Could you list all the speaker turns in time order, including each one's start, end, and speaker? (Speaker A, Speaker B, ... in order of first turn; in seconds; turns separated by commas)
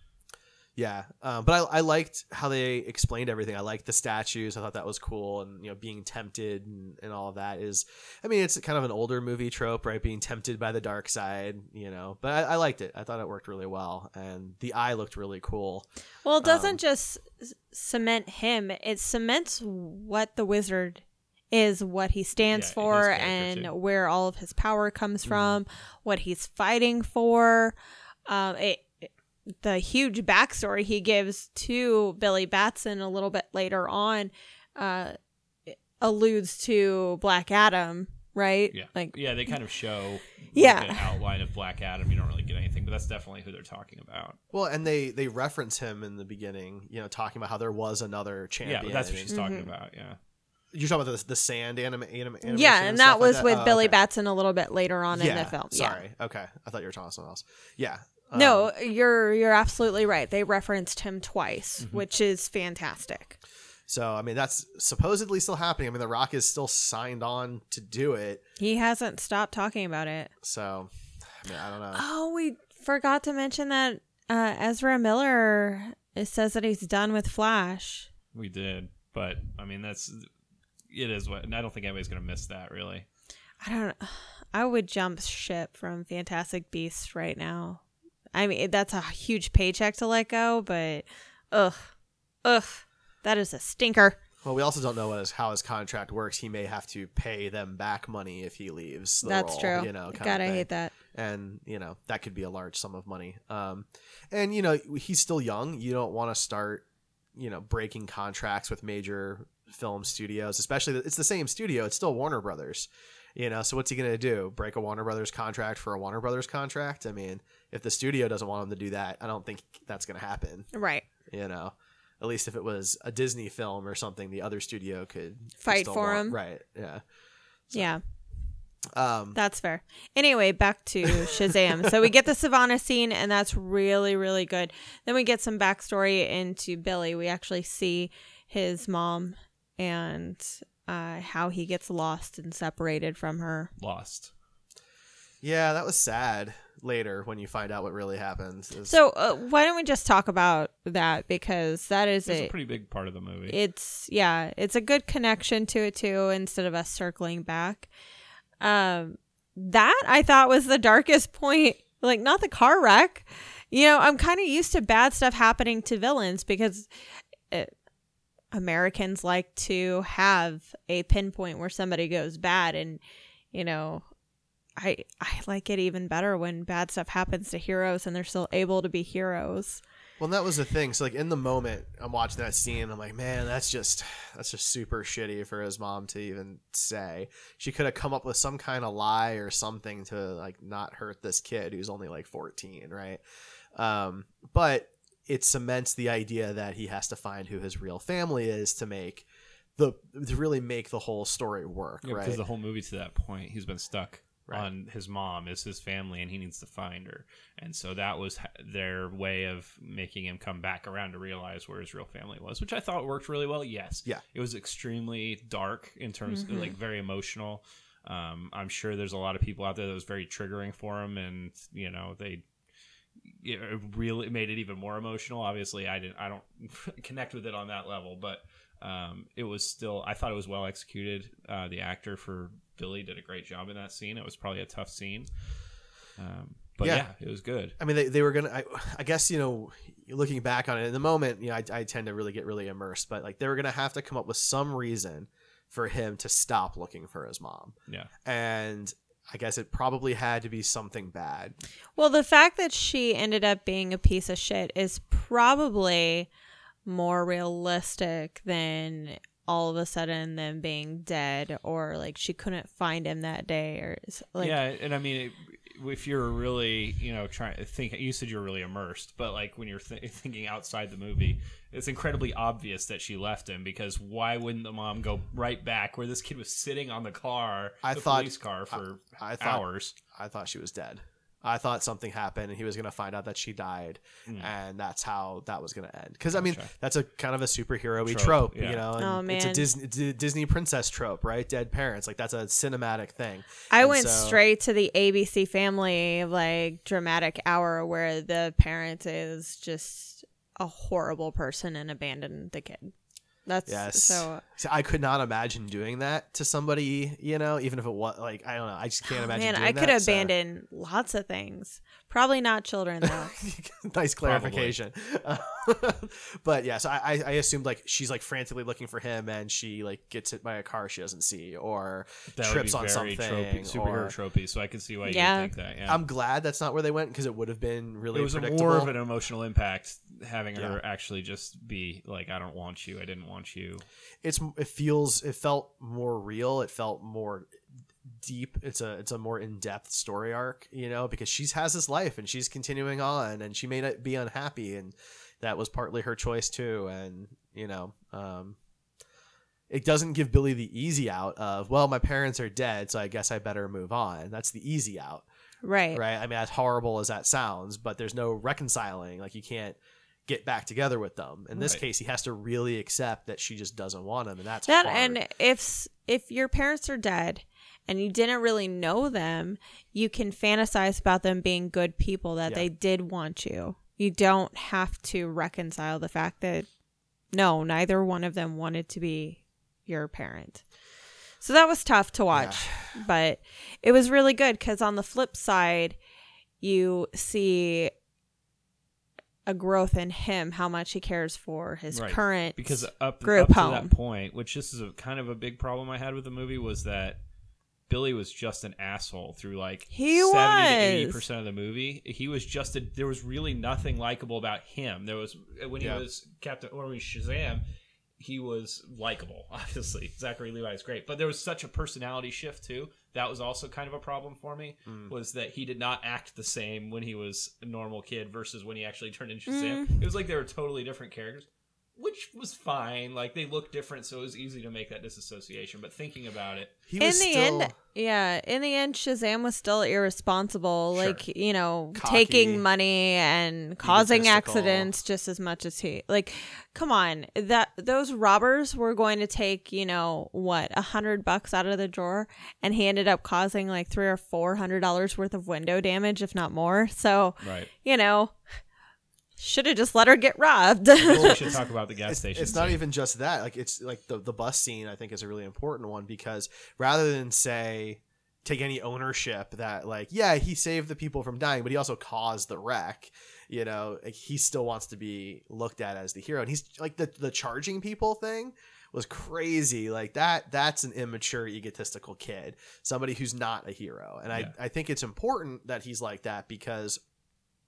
Speaker A: 0.8-15.9, Speaker B: 16.2-29.1, Speaker A: 16.4-16.8, Speaker C: 22.5-23.7, Speaker A: 25.2-25.6, Speaker B: 29.6-35.1, Speaker B: 35.7-39.5, Speaker C: 38.7-44.4, Speaker B: 40.5-41.1, Speaker A: 44.5-49.3, Speaker C: 48.6-50.2, Speaker B: 49.3-49.7, Speaker A: 50.7-54.0, Speaker B: 52.5-56.0, Speaker A: 55.1-58.7, Speaker B: 58.3-63.4, Speaker A: 63.9-68.4, Speaker B: 68.6-70.3, Speaker A: 70.4-72.0, Speaker B: 71.9-78.1, Speaker C: 78.3-80.3, Speaker C: 80.9-83.0, Speaker B: 83.6-87.8, Speaker B: 88.3-91.9, Speaker B: 92.4-94.2, Speaker A: 94.4-106.8, Speaker B: 99.2-100.9, Speaker A: 107.3-120.7, Speaker B: 120.7-121.0, Speaker A: 121.3-127.0, Speaker B: 125.6-126.4, Speaker B: 127.7-128.0, Speaker A: 128.9-129.4, Speaker B: 129.3-143.7, Speaker A: 131.1-131.4, Speaker C: 143.8-144.3, Speaker A: 145.4-148.9, Speaker B: 148.8-152.5, Speaker C: 152.3-153.6, Speaker B: 153.5-157.9, Speaker B: 158.6-166.9, Speaker B: 168.5-173.0, Speaker B: 173.5-174.1, Speaker B: 174.8-179.8, Speaker A: 180.2-193.2, Speaker A: 193.7-199.2, Speaker A: 199.8-202.4, Speaker C: 202.0-222.4, Speaker B: 216.3-216.7, Speaker C: 223.3-235.3, Speaker C: 236.2-237.7, Speaker A: 237.8-251.6, Speaker B: 252.0-256.3, Speaker B: 256.9-264.6, Speaker C: 264.4-279.9, Speaker A: 277.8-294.4, Speaker C: 286.3-286.7, Speaker C: 288.1-288.8, Speaker B: 289.0-289.7, Speaker B: 293.7-302.9, Speaker B: 303.4-304.4, Speaker A: 303.6-310.3, Speaker B: 309.1-313.4, Speaker A: 313.0-324.1, Speaker C: 314.2-314.7, Speaker C: 322.3-326.0, Speaker B: 325.1-325.5, Speaker A: 325.9-328.9, Speaker C: 328.1-333.8, Speaker A: 334.2-337.5, Speaker A: 338.2-348.6, Speaker A: 349.7-355.2, Speaker B: 355.6-356.0, Speaker A: 355.9-365.2, Speaker C: 361.5-361.8, Speaker B: 364.7-376.7, Speaker B: 377.3-380.6, Speaker B: 381.4-386.0, Speaker A: 382.3-382.9, Speaker B: 386.6-387.9, Speaker B: 389.5-393.9, Speaker C: 391.9-397.2, Speaker C: 397.9-407.6, Speaker B: 399.9-401.2, Speaker C: 408.2-421.4, Speaker A: 414.9-415.1, Speaker B: 419.5-420.0, Speaker C: 422.0-426.7, Speaker A: 426.9-427.8, Speaker B: 427.0-448.4, Speaker C: 430.9-431.2, Speaker A: 431.9-432.6, Speaker A: 433.8-434.9, Speaker C: 447.4-447.7, Speaker B: 449.4-451.4, Speaker C: 451.0-452.8, Speaker A: 451.0-477.0